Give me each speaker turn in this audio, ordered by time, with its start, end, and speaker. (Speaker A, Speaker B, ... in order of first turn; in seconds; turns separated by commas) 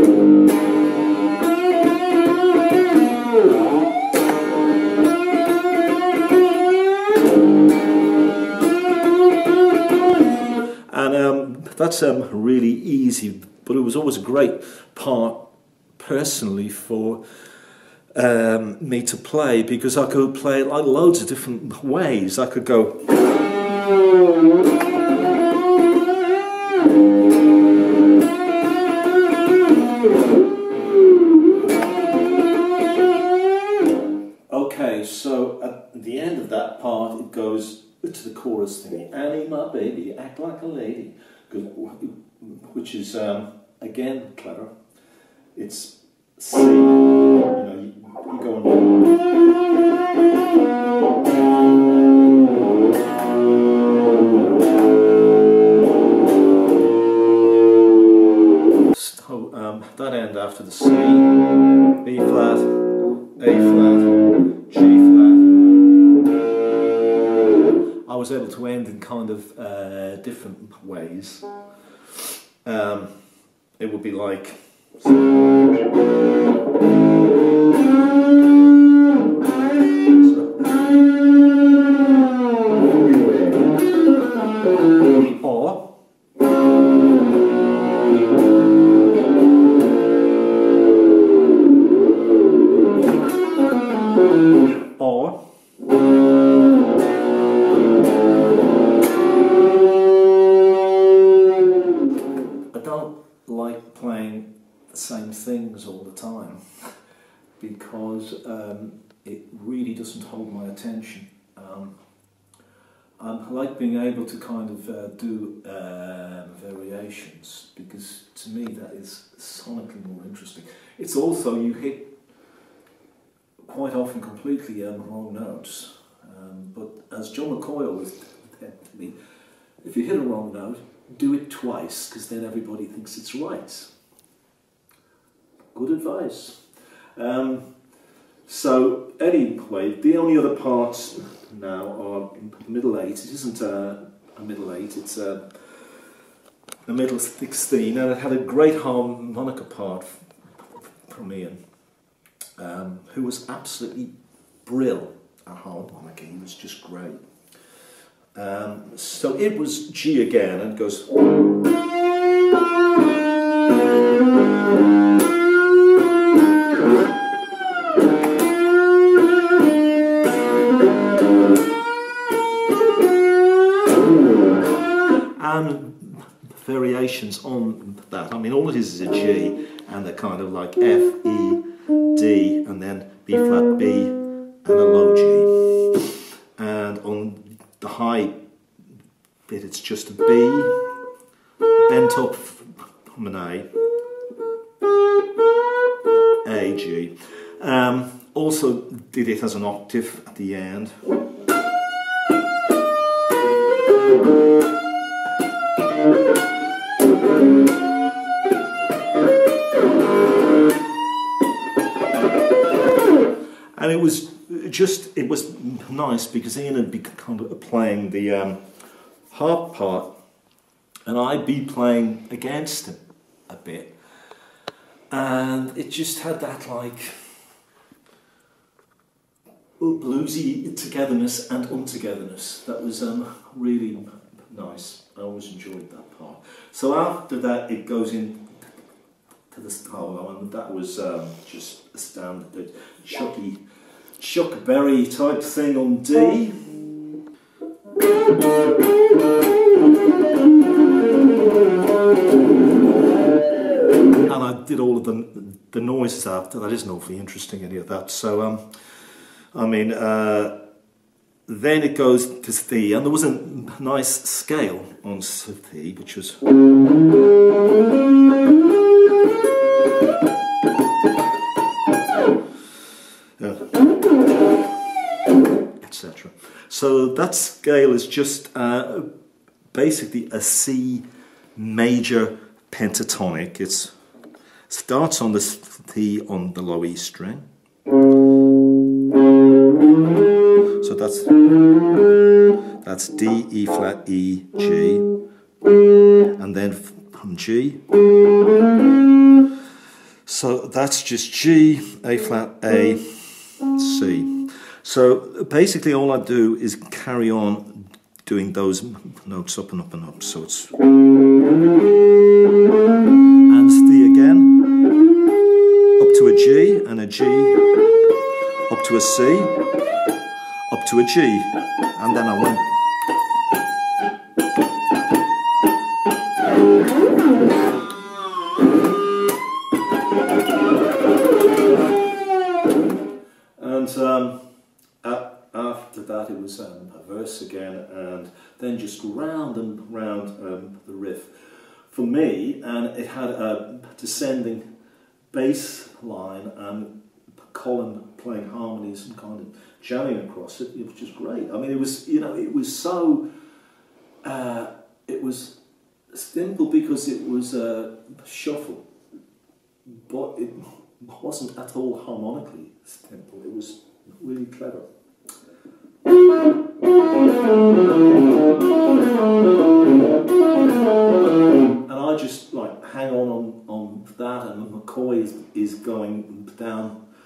Speaker A: 10.9-15.5, Speaker A: 16.0-17.2, Speaker A: 18.1-23.1, Speaker A: 34.5-44.7, Speaker A: 45.5-49.0, Speaker A: 58.9-61.4, Speaker A: 62.0-62.8, Speaker A: 63.4-65.5, Speaker A: 68.1-71.5, Speaker A: 72.2-73.1, Speaker A: 73.8-74.6, Speaker A: 80.1-80.7, Speaker A: 85.2-85.9, Speaker A: 95.0-95.4, Speaker A: 102.7-106.6, Speaker A: 107.6-112.0, Speaker A: 113.2-122.1, Speaker A: 123.6-129.2, Speaker A: 129.8-133.9, Speaker A: 135.7-136.6, Speaker A: 137.2-137.7, Speaker A: 138.5-145.9, Speaker A: 146.9-151.6, Speaker A: 152.6-154.1, Speaker A: 154.7-157.2, Speaker A: 158.3-161.2, Speaker A: 175.3-188.4, Speaker A: 189.5-190.9, Speaker A: 191.9-193.7, Speaker A: 196.4-201.0, Speaker A: 213.8-218.6, Speaker A: 219.3-220.1, Speaker A: 221.1-223.9, Speaker A: 225.1-227.2, Speaker A: 229.8-238.4, Speaker A: 239.5-243.6, Speaker A: 244.2-246.8, Speaker A: 254.3-258.7, Speaker A: 259.5-260.5, Speaker A: 261.5-266.4, Speaker A: 273.4-273.7, Speaker A: 275.8-279.1, Speaker A: 279.7-281.1, Speaker A: 281.6-283.9, Speaker A: 284.7-287.4, Speaker A: 290.8-291.4, Speaker A: 292.8-295.1, Speaker A: 296.4-297.8, Speaker A: 300.3-303.1, Speaker A: 303.6-310.8, Speaker A: 313.5-314.6, Speaker A: 316.0-317.7, Speaker A: 318.7-319.6, Speaker A: 320.7-322.7, Speaker A: 333.6-334.4, Speaker A: 335.0-344.6, Speaker A: 345.3-346.9, Speaker A: 347.5-353.2, Speaker A: 354.2-355.6, Speaker A: 356.1-358.9, Speaker A: 360.0-364.9, Speaker A: 371.8-377.0